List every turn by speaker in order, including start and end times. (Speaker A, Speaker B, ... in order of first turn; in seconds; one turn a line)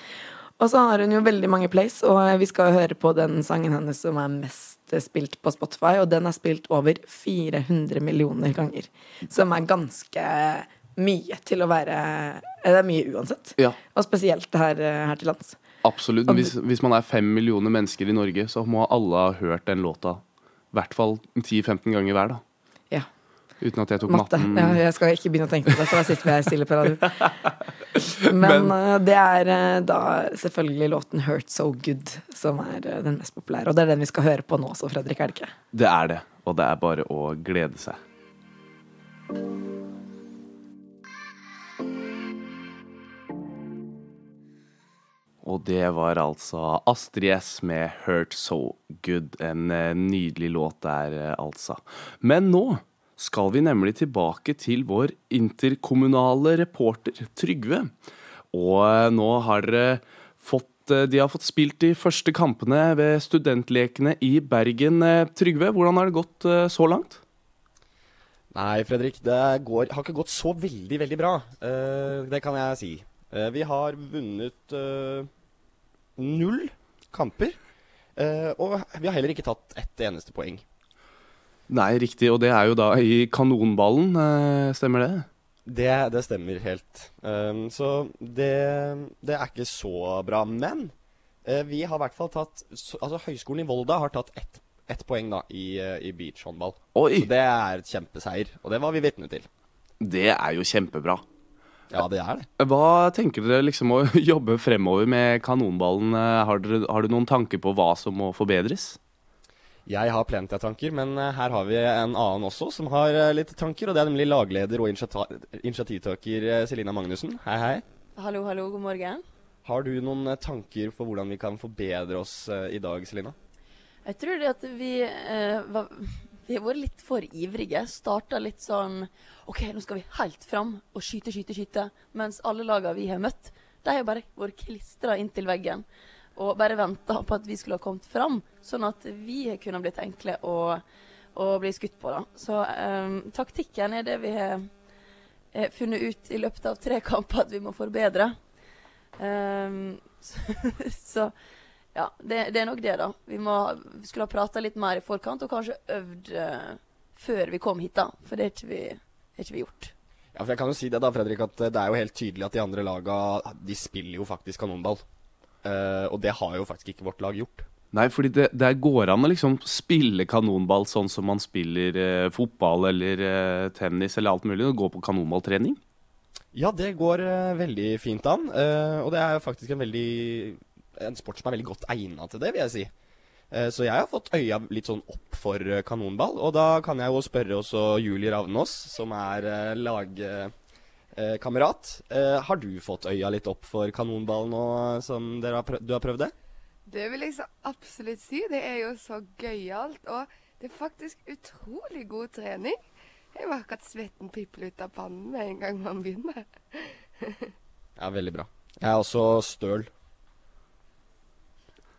Speaker A: 0.6-15.6
Speaker B: 15.8-20.2
Speaker A: 16.3-16.5
Speaker B: 20.7-22.4
Speaker B: 23.6-24.8
Speaker A: 24.1-27.3
Speaker A: 28.0-35.5
Speaker B: 28.4-28.7
Speaker B: 35.7-38.0
Speaker B: 45.4-57.9
Speaker B: 58.5-67.2
Speaker C: 68.5-75.3
Speaker C: 76.2-77.6
Speaker C: 78.2-80.6
Speaker B: 81.7-85.3
Speaker C: 85.7-90.9
Speaker C: 91.5-99.5
Speaker B: 97.0-97.3
Speaker B: 100.0-101.2
Speaker C: 101.9-102.5
Speaker B: 102.6-109.0
Speaker C: 109.9-117.8
Speaker D: 118.2-119.2
Speaker C: 119.7-123.4
Speaker D: 124.0-140.8
Speaker D: 141.3-144.7
Speaker D: 145.5-148.3
Speaker D: 149.2-151.3
Speaker D: 151.9-159.9
Speaker C: 160.3-165.0
Speaker C: 165.6-167.7
Speaker B: 167.9-175.8
Speaker C: 176.5-182.9
Speaker C: 183.5-190.5
Speaker C: 191.2-196.3
Speaker E: 196.9-202.8
Speaker E: 203.3-207.4
Speaker C: 208.0-209.9